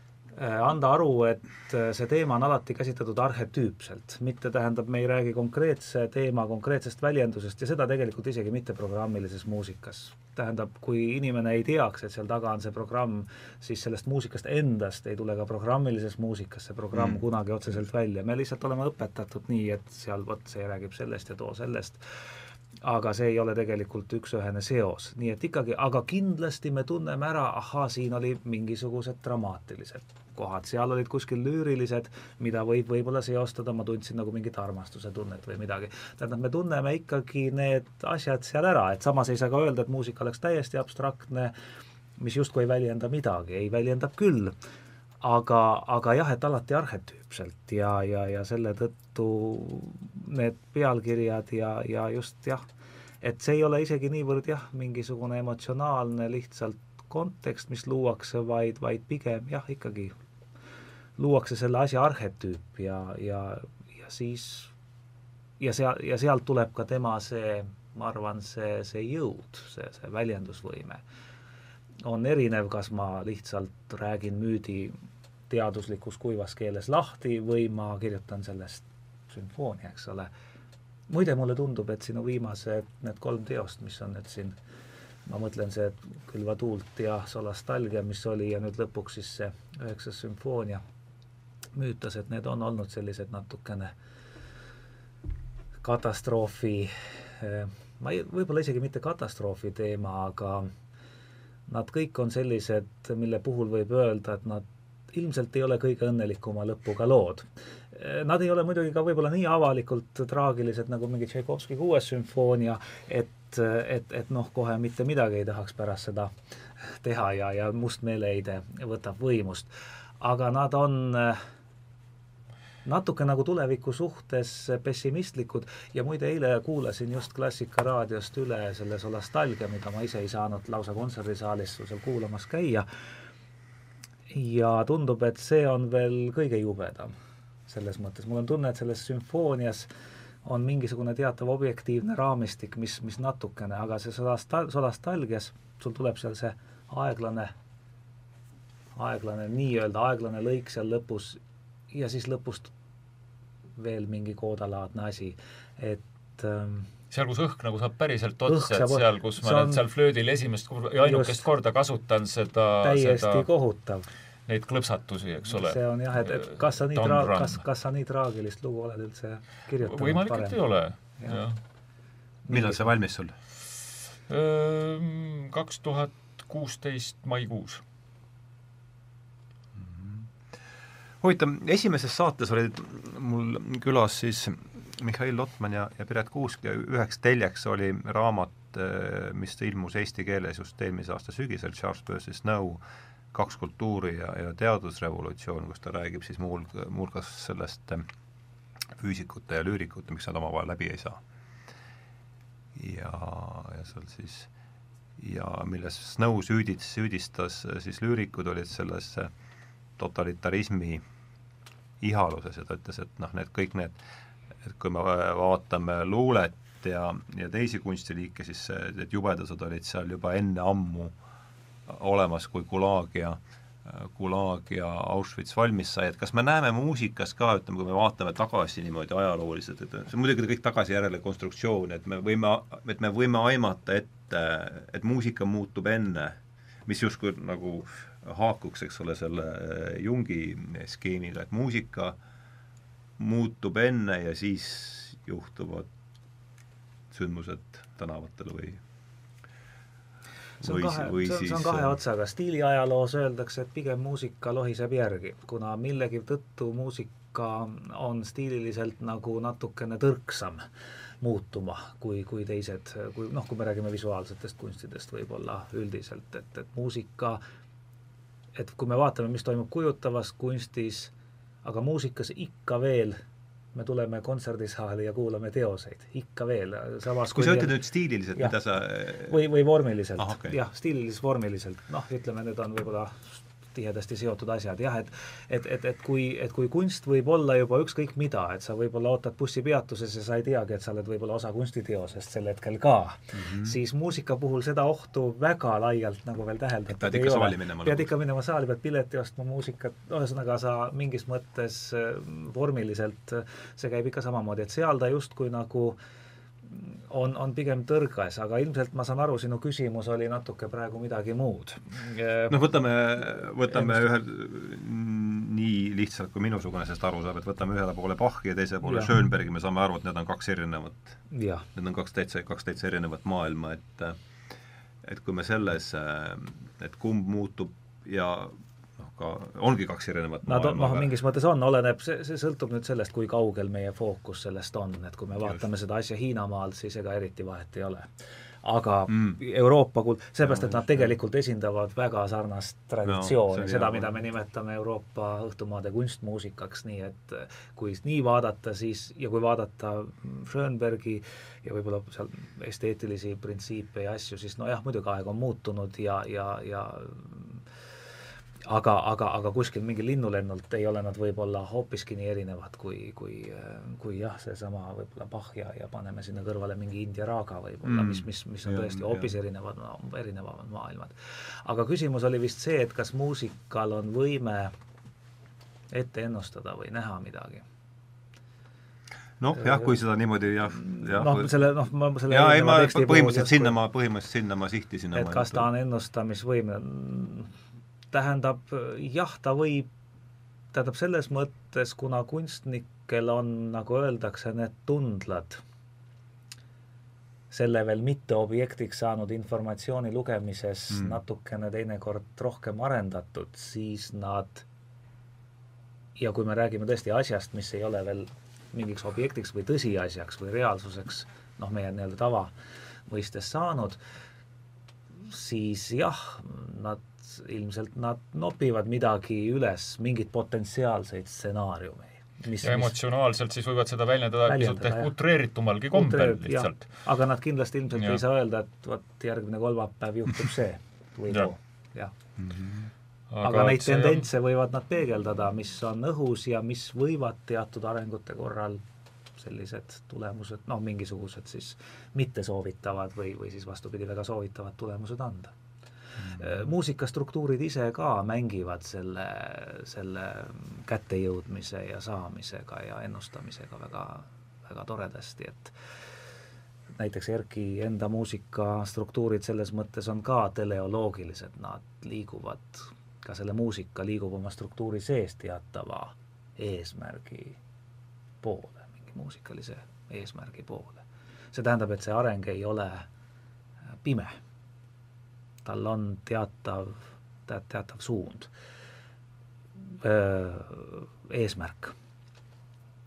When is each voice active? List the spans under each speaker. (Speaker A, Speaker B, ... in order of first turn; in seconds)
Speaker A: 0.3-22.0, 22.8-41.5, 42.2-44.6, 45.2-52.6, 53.2-60.1, 61.2-64.7, 65.6-71.0, 72.0-75.0, 75.5-80.3, 81.1-84.6, 85.3-90.8, 91.8-93.9, 95.8-100.7, 101.7-116.3, 117.0-121.4, 122.8-132.9, 134.3-137.1, 137.7-139.9, 140.4-147.5, 148.9-152.7, 153.8-156.9, 158.5-159.8, 161.0-161.5, 162.8-164.1, 165.5-170.6, 172.5-172.9, 250.6-260.6, 261.2-267.4, 268.6-271.1, 271.6-273.2, 273.8-277.8, 279.2-306.0, 306.7-312.6, 313.7-314.0, 318.8-319.1, 321.3-321.7, 330.5-338.1, 338.6-357.6, 358.7-374.7, 375.9-377.7, 379.6-379.9, 380.8-383.8, 385.1-387.5, 388.1-389.9, 390.7-395.6, 397.5-404.7, 406.2-412.5, 413.1-414.0, 415.2-422.9, 424.5-425.1, 425.9-432.1, 433.4-438.8, 439.4-445.5, 446.4-455.8, 456.9-467.6, 468.4-473.1, 474.0-474.4, 475.6-478.5, 479.8-481.9
Speaker B: 16.9-17.2, 172.5-173.3, 179.8-180.3, 181.2-192.8, 193.3-198.1, 199.0-201.2, 202.8-204.5, 205.2-209.3, 210.0-211.0, 212.0-214.0, 214.6-221.2, 221.9-242.2, 243.2-245.9, 247.1-248.8, 250.6-252.0, 277.3-279.4, 280.2-280.6, 293.3-293.8, 297.0-298.1, 312.5-321.2, 321.8-324.2, 325.0-331.1, 339.1-339.4, 340.4-341.1, 343.1-344.1, 367.8-369.3, 379.4-381.6, 382.3-385.7, 400.9-401.2, 432.4-432.9, 446.2-446.6
Speaker C: 157.1-163.5, 164.5-167.6, 169.8-171.6, 174.3-177.8, 422.6-426.9, 433.3-434.3